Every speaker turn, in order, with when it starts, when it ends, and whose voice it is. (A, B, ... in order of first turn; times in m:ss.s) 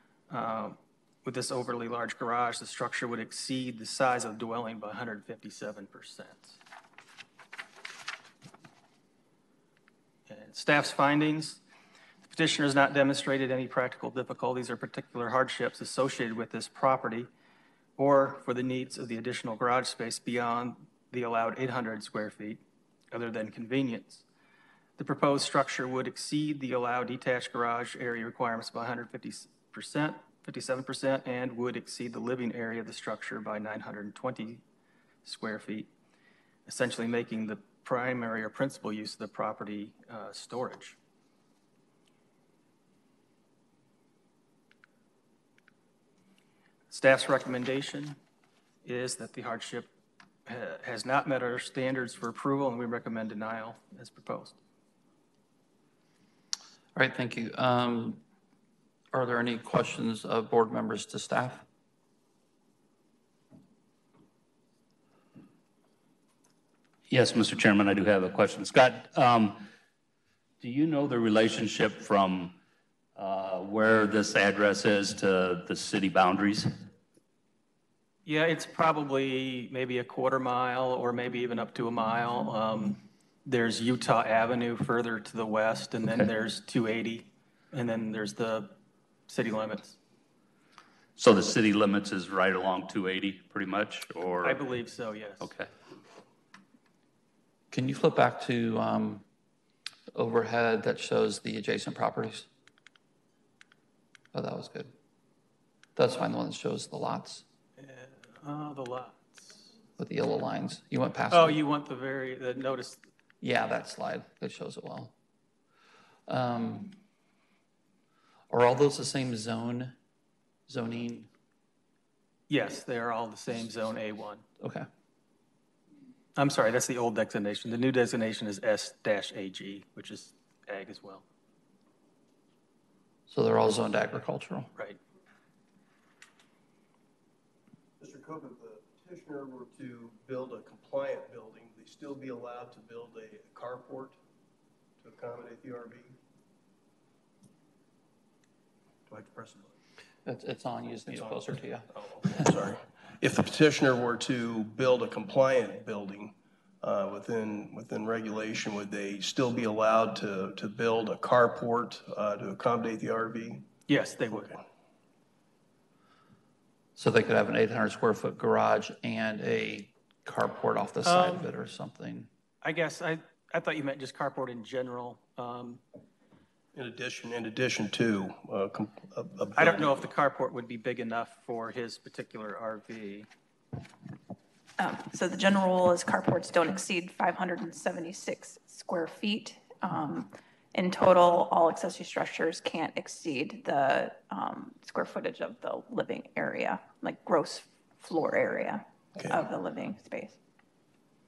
0:00.3-0:06.6 A
0:10.3-0:11.6 A
0:12.3-0:17.3 A
0:18.0-0:22.6 A
0:23.1-0:24.2 A
0:25.0-0:34.6 A
0:35.2-0:35.9 A
0:36.7-0:41.0 A
0:46.9-0:48.2 A
0:48.8-0:49.9 A
0:50.5-0:54.6 A
0:57.0-0:58.2 B
0:59.1-1:01.6 B
1:07.1-1:09.7 C
1:10.6-1:12.6 C
1:13.2-1:16.7 C
1:18.2-1:28.8 A
1:29.3-1:30.0 A
1:31.2-1:34.6 C
1:34.4-1:35.5 A
1:35.4-1:35.7 C
1:37.7-1:39.2 B
1:40.1-1:42.5 B
1:44.3-1:44.9 B
1:46.0-1:47.4 B
1:47.8-1:49.7 A
1:50.0-1:51.6 B
1:51.3-1:53.0 A
1:53.4-1:55.1 B
1:56.3-1:57.0 B
1:58.5-2:00.0 B
2:00.7-2:01.3 B
2:02.5-2:04.4 A
2:04.6-2:04.9 B
2:06.4-2:11.2 A
2:13.3-2:14.7 B
2:18.0-2:24.2 D
2:25.0-2:26.2 D
2:29.1-2:29.7 D
2:30.2-2:32.5 B
2:31.1-2:43.7 D
2:43.9-2:44.6 A
2:47.0-2:52.3 B
2:51.0-2:51.5 A
2:52.6-2:55.8 A
2:56.8-3:00.0 D
2:59.6-3:03.3 A
3:04.8-3:20.4 E